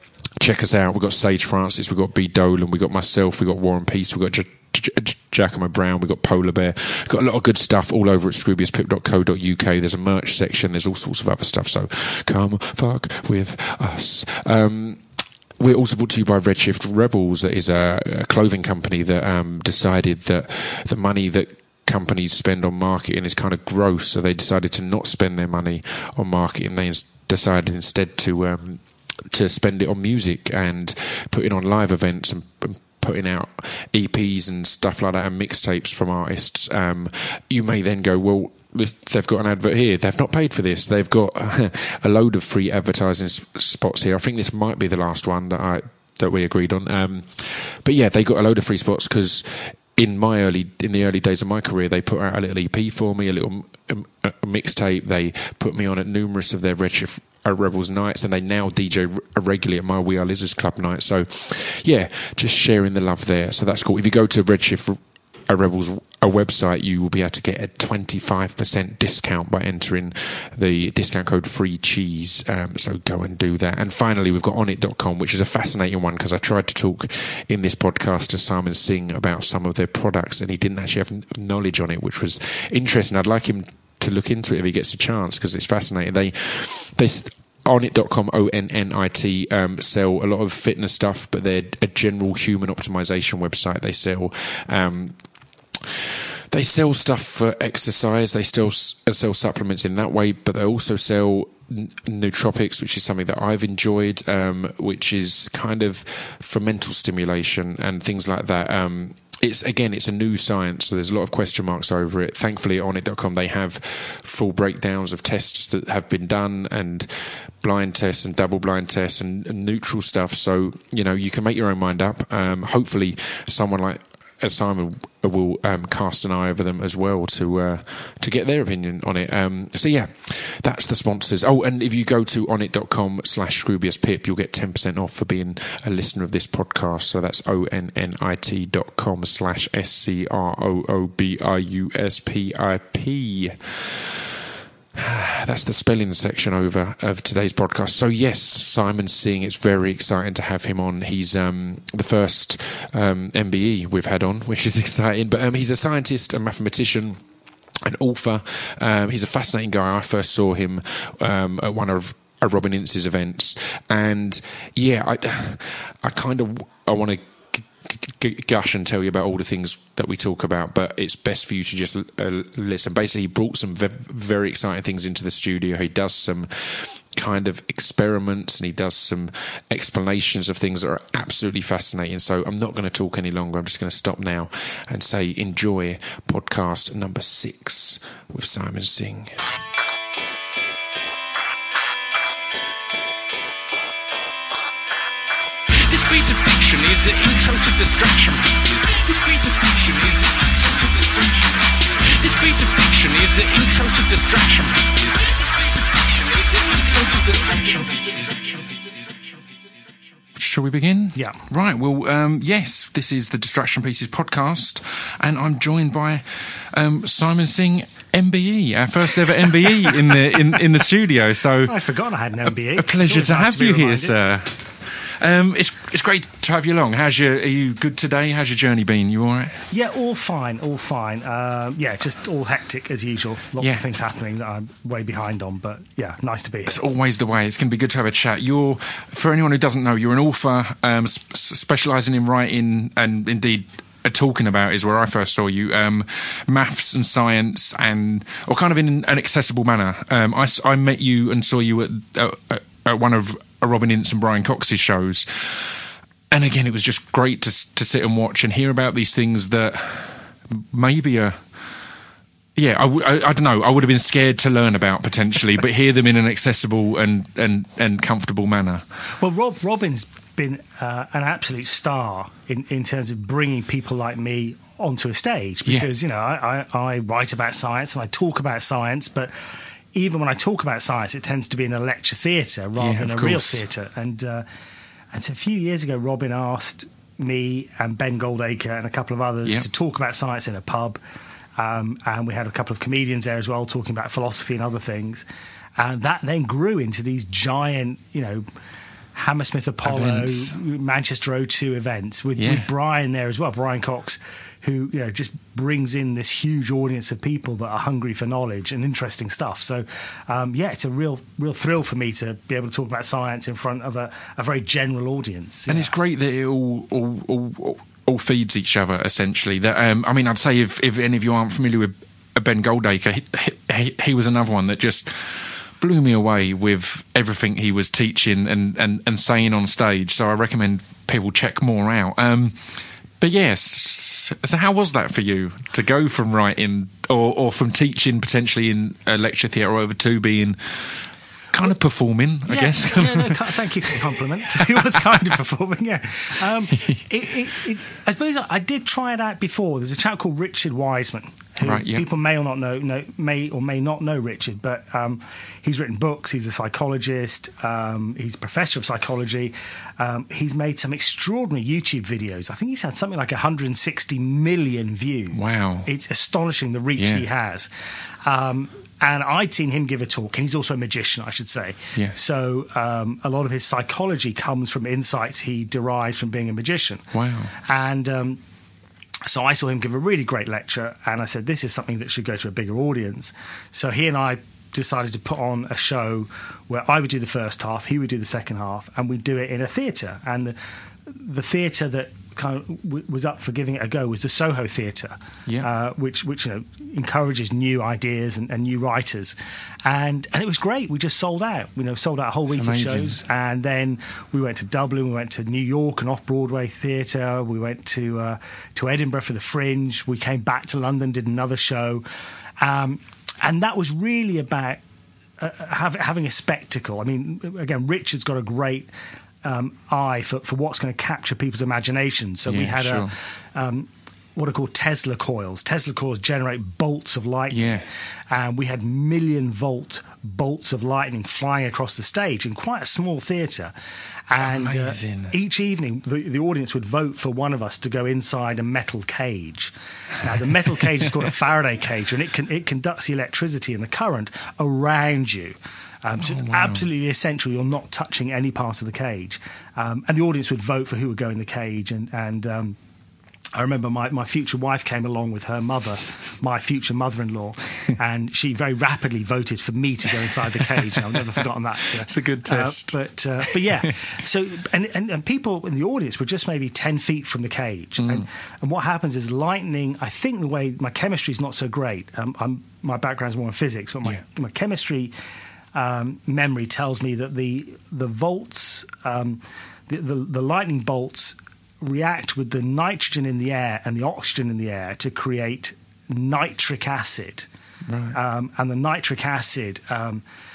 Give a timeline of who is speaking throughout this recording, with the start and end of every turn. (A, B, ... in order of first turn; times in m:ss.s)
0:00.4-0:15.0 A
0:15.6-1:35.2 A
1:35.8-2:24.3 A
2:25.0-2:37.2 A
2:37.8-3:09.5 A
3:15.9-3:20.2 B
3:16.0-3:20.3 A
3:20.8-3:21.3 B
3:22.3-3:25.3 A
3:22.4-3:25.0 B
3:26.5-3:28.7 A
3:26.8-3:27.5 B
3:30.3-3:41.8 A
3:31.1-3:31.4 C
3:41.6-3:44.2 C
3:42.4-3:49.6 A
3:49.7-3:56.8 C
3:56.7-4:21.4 A
4:22.6-4:28.8 A
4:29.2-4:44.5 C
4:42.8-4:43.6 A
4:45.1-4:51.0 C
4:51.6-4:55.2 C
4:55.8-4:58.5 C
4:59.1-5:15.9 C
4:59.8-5:00.5 A
5:02.4-5:02.7 A
5:15.7-5:45.4 A
5:42.4-6:07.7 C
5:51.6-5:52.1 A
6:05.3-6:05.9 A
6:07.0-6:07.2 A
6:08.2-6:17.1 C
6:17.1-6:17.5 A
6:17.6-6:18.4 C
6:19.3-6:52.1 C
6:42.5-6:43.2 A
6:52.6-6:54.8 C
6:55.4-6:58.9 C
6:59.4-7:13.7 C
7:02.5-7:03.1 A
7:07.5-7:07.8 A
7:14.3-7:32.8 C
7:14.4-7:15.3 A
7:26.2-7:26.9 A
7:33.5-7:55.1 C
7:40.6-7:41.4 A
7:42.0-7:43.9 A
7:48.0-7:48.3 A
7:55.7-8:07.5 C
8:07.9-8:08.2 A
8:08.1-8:10.2 C